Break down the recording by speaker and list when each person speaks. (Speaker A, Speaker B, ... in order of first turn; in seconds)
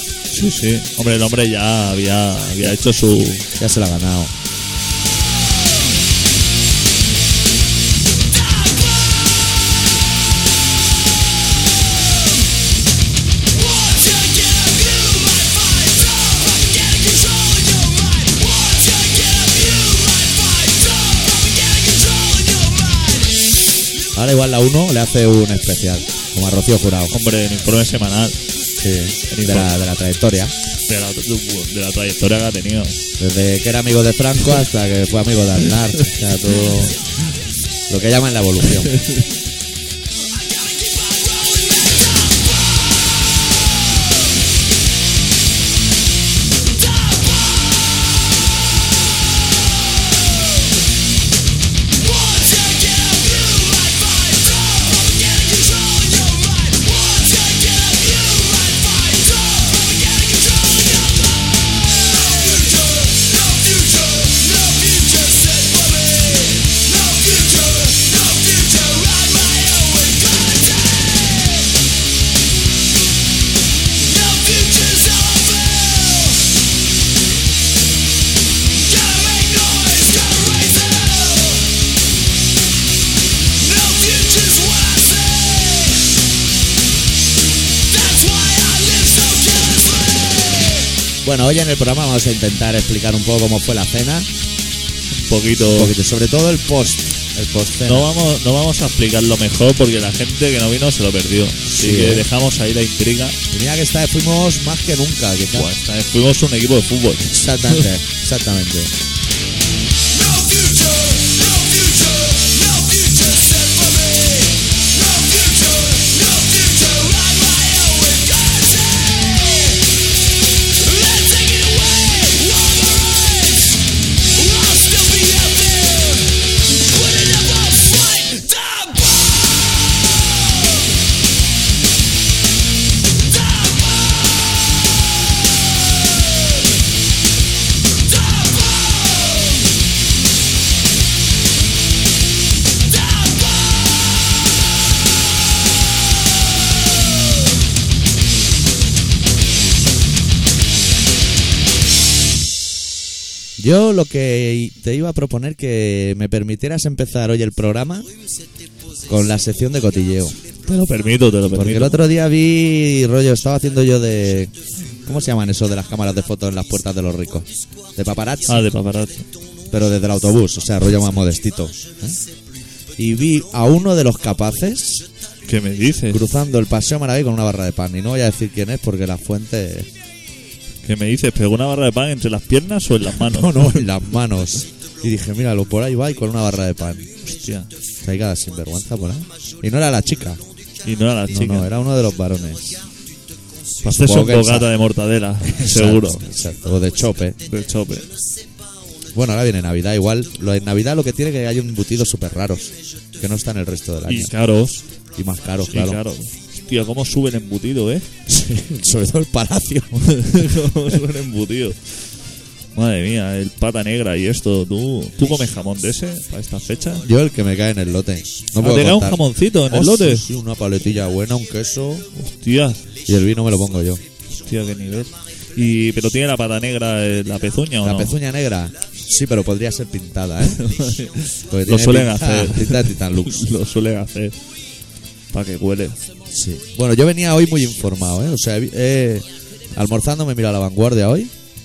Speaker A: 0.3-3.5, 27.1-28.4, 29.3-29.7, 30.9-33.0, 38.7-39.3, 95.1-95.9, 97.8-103.4, 105.5-107.9, 160.7-162.0, 168.4-169.3, 175.4-176.2, 180.8-183.9, 187.2-187.7, 190.8-191.7, 193.8-196.2, 197.4-198.1, 204.1-204.8, 205.7-208.1, 209.9-211.9, 212.7-217.1, 218.6-220.2, 222.1-222.8, 224.3-228.1, 230.5-234.3, 235.3-236.0
Speaker B: 3.6-4.3, 24.1-27.1, 28.8-30.5, 33.2-37.0, 37.9-38.9, 91.2-94.3, 95.7-98.1, 101.7-102.3, 103.5-105.7, 107.2-108.9, 153.6-158.1, 159.1-160.4, 161.5-164.5, 165.0-168.6, 169.7-172.2, 173.0-175.1, 176.1-179.9, 183.2-187.1, 188.0-190.4, 191.3-192.8, 193.8-194.7, 195.4-197.4, 199.1-204.3, 205.1-206.0, 208.3-210.5, 217.0-222.1, 223.1-224.0, 227.8-230.6, 231.5-233.4, 236.3-241.3
Speaker C: 8.4-9.3, 13.5-23.5, 41.6-42.1, 52.0-71.7, 74.0-76.5, 78.9-81.7, 83.6-86.0, 87.9-90.9, 110.1-119.8, 120.8-123.8, 124.3-129.2